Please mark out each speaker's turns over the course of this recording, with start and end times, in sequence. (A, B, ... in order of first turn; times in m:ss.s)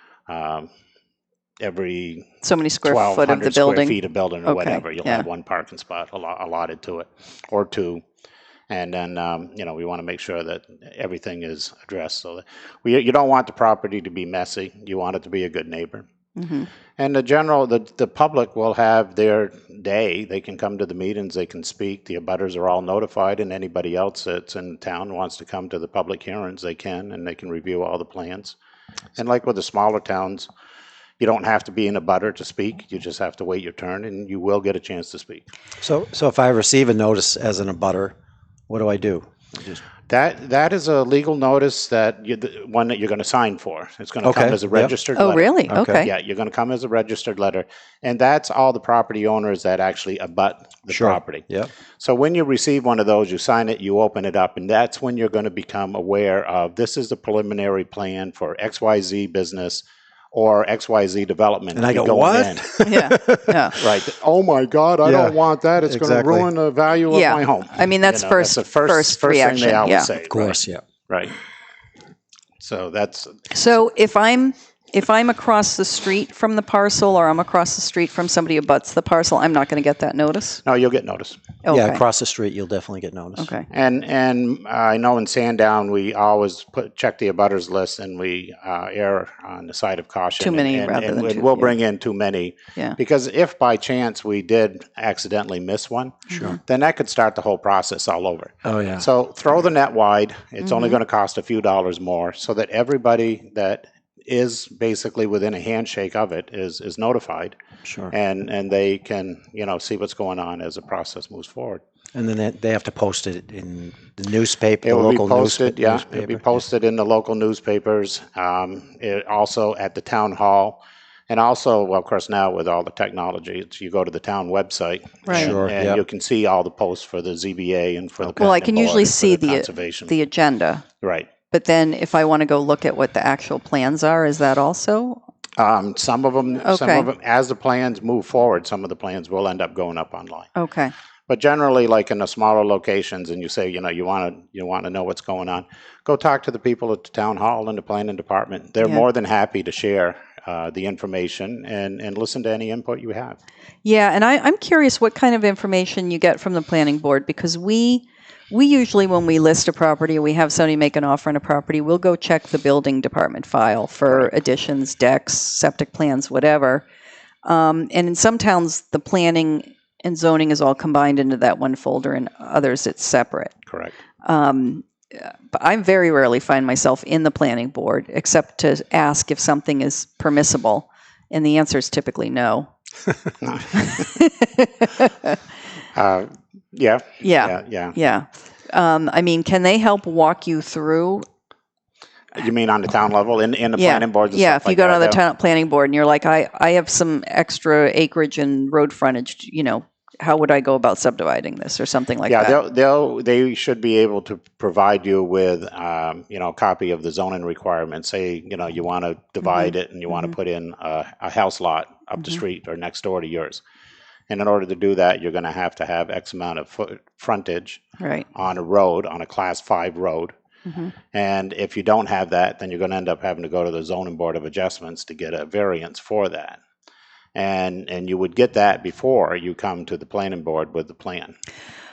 0:00.3-0:00.7 A
0:01.6-0:08.0 A
0:02.4-0:05.2 B
0:08.7-0:16.0 A
0:16.4-0:16.7 B
0:17.0-0:28.6 A
0:29.2-0:30.5 A
0:31.2-0:35.4 A
0:35.8-0:38.2 C
0:38.7-0:39.8 C
0:40.1-0:51.4 A
0:44.2-0:44.9 C
0:45.1-0:46.1 B
0:45.7-0:46.1 C
0:50.9-0:51.7 C
0:52.0-1:02.6 A
1:01.7-1:03.9 C
1:02.8-1:03.8 B
1:03.8-1:11.4 A
1:05.0-1:06.5 C
1:07.1-1:10.1 B
1:10.3-1:10.8 C
1:12.6-1:13.5 A
1:13.5-1:20.6 B
1:20.6-1:21.4 A
1:21.6-1:22.0 B
1:21.7-1:23.5 C
1:23.4-1:23.7 B
1:23.7-1:47.6 A
1:30.4-1:31.7 B
1:36.3-1:36.6 B
1:36.3-1:36.6 C
1:38.6-1:39.1 C
1:40.6-1:41.0 B
1:47.8-1:48.1 C
1:48.1-1:51.8 A
1:52.1-1:56.4 C
1:54.8-2:10.1 A
2:05.2-2:05.6 B
2:05.3-2:06.0 C
2:08.4-2:10.8 B
2:11.0-2:11.3 A
2:11.5-2:15.2 B
2:15.6-2:20.5 A
2:16.6-2:17.1 B
2:20.6-2:20.9 B
2:21.3-2:33.4 A
2:33.8-2:46.8 B
2:47.4-2:53.6 B
2:53.7-2:54.0 A
2:54.2-3:02.7 B
3:03.4-3:04.0 A
3:03.7-3:05.4 B
3:05.9-3:07.9 A
3:07.2-3:11.2 B
3:12.3-3:15.2 A
3:13.8-3:22.6 B
3:22.3-3:33.6 A
3:29.4-3:30.3 B
3:34.3-3:40.3 A
3:38.0-3:38.2 B
3:40.6-3:40.9 B
3:41.1-3:46.6 A
3:47.3-3:51.3 A